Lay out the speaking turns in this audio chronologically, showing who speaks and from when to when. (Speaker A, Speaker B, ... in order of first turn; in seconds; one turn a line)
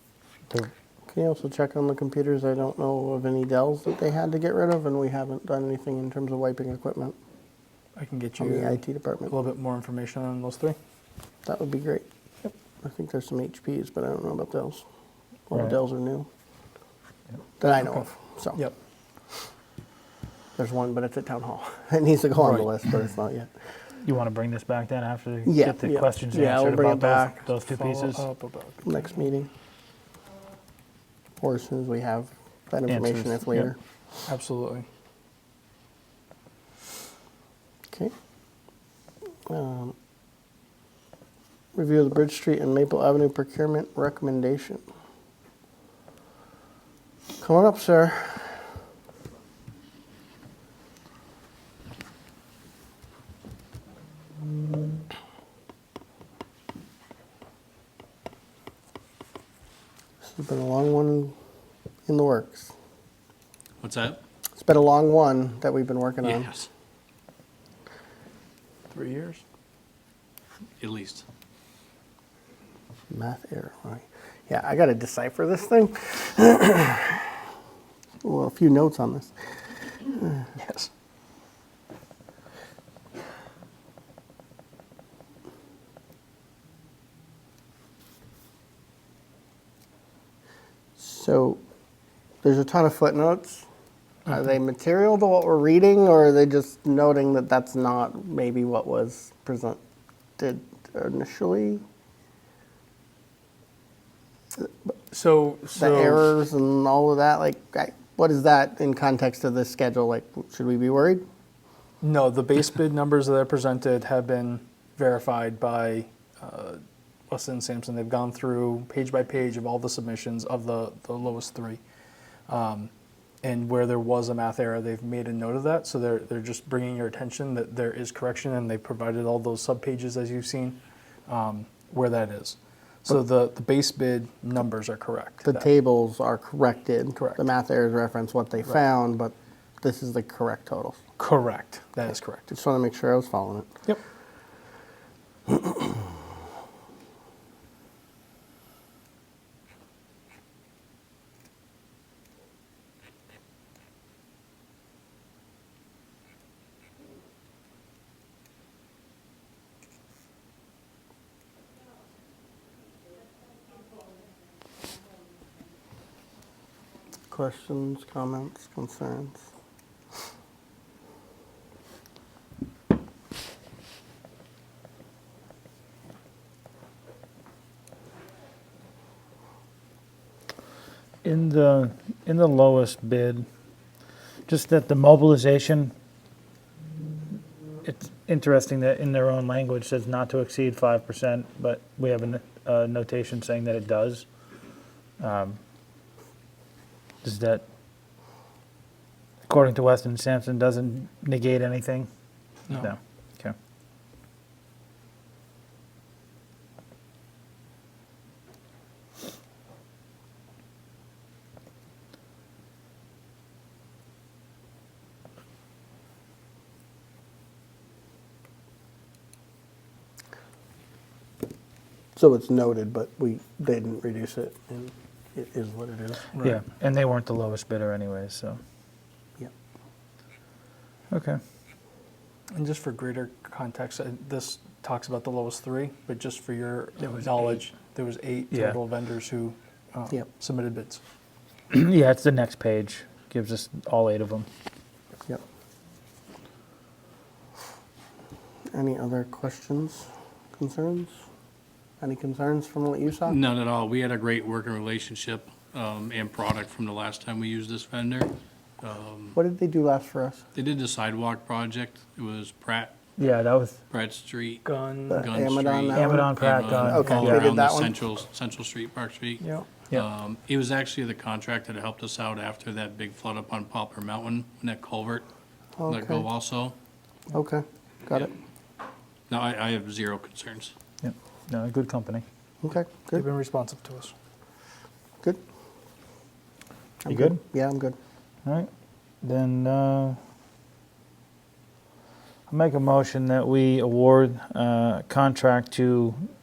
Speaker A: 1.1-7.2
Speaker B: 8.0-10.8
Speaker A: 8.4-9.3
Speaker A: 11.4-12.1
Speaker A: 12.8-14.8
Speaker A: 15.5-16.3
Speaker A: 17.6-18.6
Speaker A: 20.6-23.5
Speaker B: 22.4-22.7
Speaker C: 24.0-28.2
Speaker A: 25.4-27.4
Speaker B: 27.6-29.1
Speaker A: 28.8-29.5
Speaker A: 31.4-33.8
Speaker C: 32.9-33.7
Speaker B: 34.3-34.9
Speaker A: 39.5-39.9
Speaker A: 41.7-44.8
Speaker A: 47.4-48.7
Speaker A: 60.2-61.3
Speaker A: 62.1-62.7
Speaker D: 63.8-64.2
Speaker A: 64.6-66.6
Speaker D: 66.2-66.7
Speaker B: 68.9-69.4
Speaker D: 70.8-71.2
Speaker A: 73.1-77.4
Speaker A: 78.2-79.3
Speaker A: 80.0-80.5
Speaker B: 80.6-80.9
Speaker A: 91.0-91.6
Speaker A: 92.4-93.7
Speaker A: 94.2-99.8
Speaker A: 100.4-101.8
Speaker B: 105.1-106.2
Speaker A: 105.8-111.2
Speaker B: 112.0-121.8
Speaker B: 122.5-122.9
Speaker B: 123.4-135.7
Speaker A: 135.4-141.0
Speaker B: 141.2-142.5
Speaker A: 142.5-143.7
Speaker A: 145.5-146.0
Speaker A: 167.3-169.4
Speaker C: 181.2-183.4
Speaker C: 184.5-185.9
Speaker C: 187.8-194.2
Speaker C: 195.2-195.6
Speaker C: 197.2-197.6
Speaker C: 199.5-202.1
Speaker C: 202.7-203.5
Speaker A: 222.2-226.2
Speaker B: 226.3-226.6
Speaker C: 226.4-228.6
Speaker C: 231.1-231.4
Speaker B: 232.5-241.0
Speaker C: 241.7-244.4
Speaker A: 248.7-251.1
Speaker A: 252.0-253.4
Speaker D: 253.3-259.4
Speaker A: 259.3-260.4
Speaker D: 260.5-262.9
Speaker C: 263.2-263.8
Speaker D: 263.9-275.2
Speaker B: 264.6-265.3
Speaker A: 265.1-267.9
Speaker C: 265.9-267.5
Speaker B: 266.9-267.3
Speaker B: 269.4-269.7
Speaker A: 275.8-276.2
Speaker D: 275.9-276.7
Speaker A: 277.3-278.3
Speaker D: 279.3-280.7
Speaker C: 281.0-282.2
Speaker A: 282.6-283.2
Speaker B: 283.1-284.1
Speaker A: 287.0-287.9
Speaker C: 287.1-287.4
Speaker C: 289.2-290.1
Speaker C: 292.5-296.1